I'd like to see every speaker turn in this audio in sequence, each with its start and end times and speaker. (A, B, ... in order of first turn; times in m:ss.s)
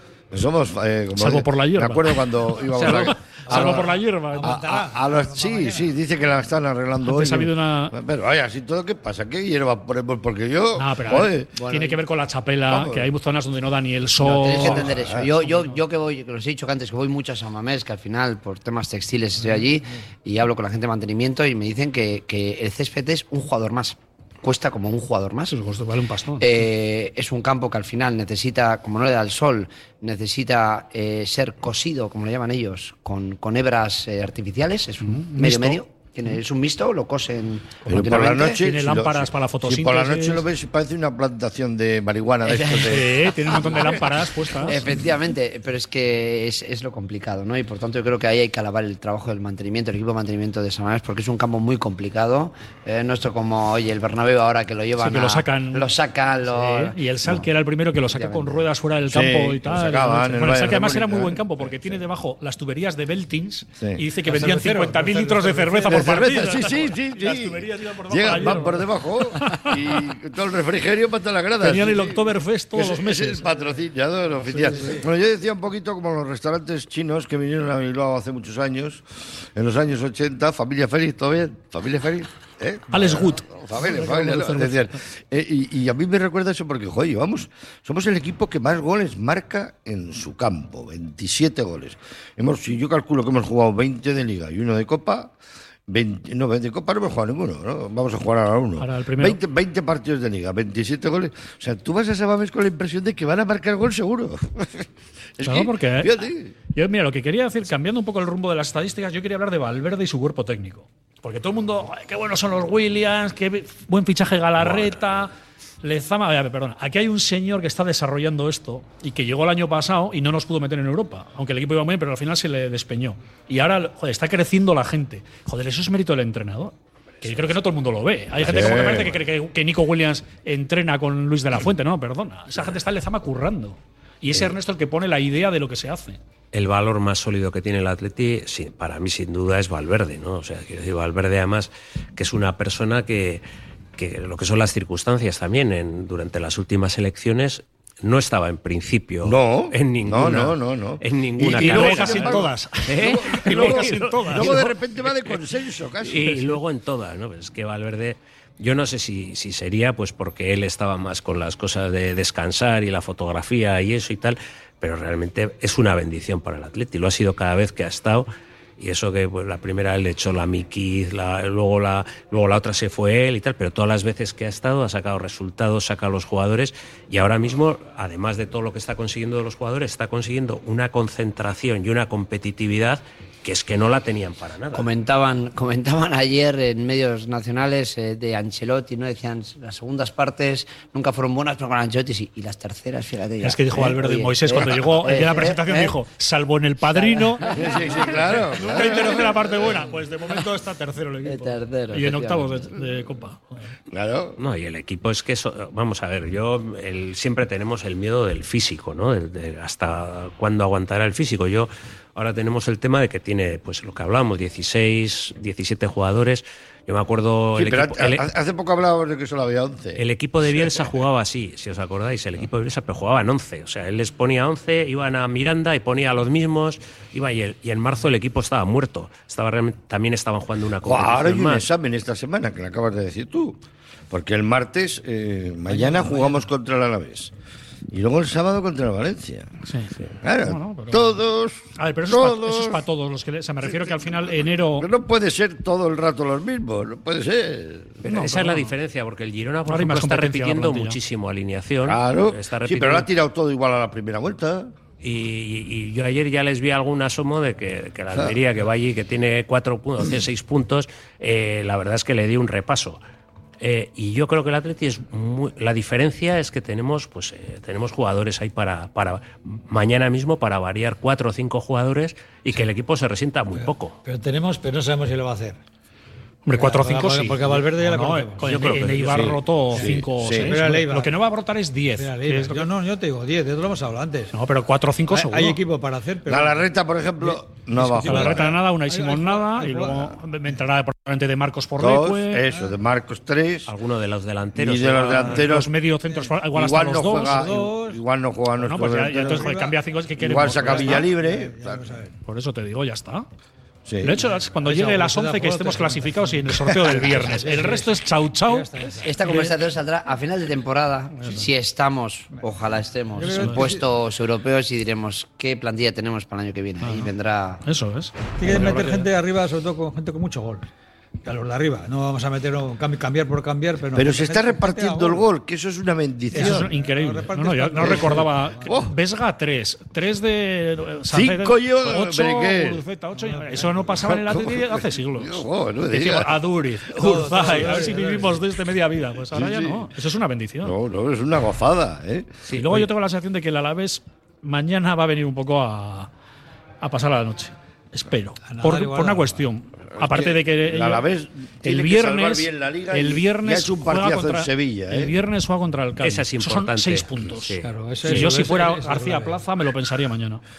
0:00.3-0:11.5 A
0:01.2-0:04.6 B
0:02.8-0:03.1 C
0:03.5-0:05.9 D
0:07.0-0:07.9 B
0:10.8-0:14.9 B
0:11.5-0:12.0 E
0:12.7-0:13.1 A
0:14.2-0:25.6 E
0:14.5-0:15.3 A
0:25.5-0:26.4 B
0:26.4-0:38.6 E
0:35.0-0:35.8 B
0:37.8-0:40.4 B
0:37.9-0:44.0 A
0:42.4-0:44.0 E
0:42.8-0:44.8 B
0:44.6-0:57.0 E
0:55.0-0:55.9 B
0:56.5-1:09.9 B
0:58.1-0:58.7 E
0:59.1-1:01.9 A
1:03.8-1:04.0 A
1:04.2-1:06.5 D
1:05.9-1:35.3 A
1:11.6-1:13.5 B
1:14.6-1:14.8 B
1:22.9-1:25.0 B
1:35.9-1:46.5 A
1:38.8-1:39.4 B
1:45.4-1:46.1 B
1:46.7-1:55.3 B
1:54.7-1:55.0 C
1:55.8-2:16.2 B
2:08.4-2:09.2 A
2:16.5-2:23.4 C
2:24.0-2:34.6 C
2:29.2-2:36.6 A
2:31.5-2:34.7 B
2:36.0-3:04.9 C
3:04.7-3:16.0 E
3:13.4-3:23.6 B
3:16.9-3:18.1 E
3:17.5-3:19.7 A
3:21.2-3:22.7 E
3:23.9-3:24.4 A
3:24.4-3:38.2 C
3:37.6-3:40.0 A
3:40.0-3:51.7 C
3:40.5-3:40.9 A
3:50.8-3:57.3 A
3:55.7-3:56.4 D
3:57.9-3:59.5 A
3:59.6-4:01.2 B
4:00.2-4:02.8 A
4:01.8-4:04.9 B
4:03.7-4:04.1 A
4:04.7-4:08.0 A
4:08.0-4:13.1 C
4:08.0-4:08.7 B
4:09.6-4:11.0 B
4:11.8-4:14.7 A
4:15.0-4:23.0 C
4:23.6-4:34.0 C
4:33.5-4:35.6 D
4:36.4-4:42.7 B
4:36.5-4:38.9 D
4:38.4-4:39.3 C
4:39.0-4:40.6 A
4:39.7-4:41.2 D
4:42.0-4:44.3 D
4:44.3-4:45.6 B
4:45.1-4:50.1 D
4:46.3-4:48.6 A
4:48.0-4:52.4 B
4:51.8-4:53.7 A
4:53.7-4:55.5 C
4:54.5-4:55.7 A
4:55.3-4:57.4 B
4:56.0-4:56.4 D
4:56.5-4:59.6 A
4:57.0-4:58.0 D
4:58.6-5:01.1 B
4:58.9-5:02.1 D
5:00.2-5:01.9 A
5:02.2-5:03.2 B
5:03.8-5:04.2 A
5:04.0-5:08.7 B
5:04.2-5:09.1 D
5:09.0-5:17.6 E
5:09.2-5:09.5 B
5:11.2-5:11.4 B
5:13.2-5:13.8 D
5:13.4-5:13.6 B
5:16.8-5:17.1 B
5:17.6-5:19.1 B
5:18.4-5:20.7 D
5:21.2-5:25.2 D
5:23.9-5:26.7 A
5:26.3-5:28.8 D
5:26.3-5:40.7 B
5:27.8-5:28.9 A
5:31.1-5:32.8 A
5:33.2-5:33.9 D
5:33.9-5:36.4 A
5:36.9-5:38.4 D
5:39.3-5:39.9 A
5:40.6-5:42.3 A
5:42.5-5:42.9 C
5:42.5-5:46.1 B
5:46.8-5:51.1 B
5:48.4-5:49.4 D
5:50.0-5:55.1 A
5:51.6-6:00.4 B
5:56.0-5:58.2 C
5:57.6-5:59.4 D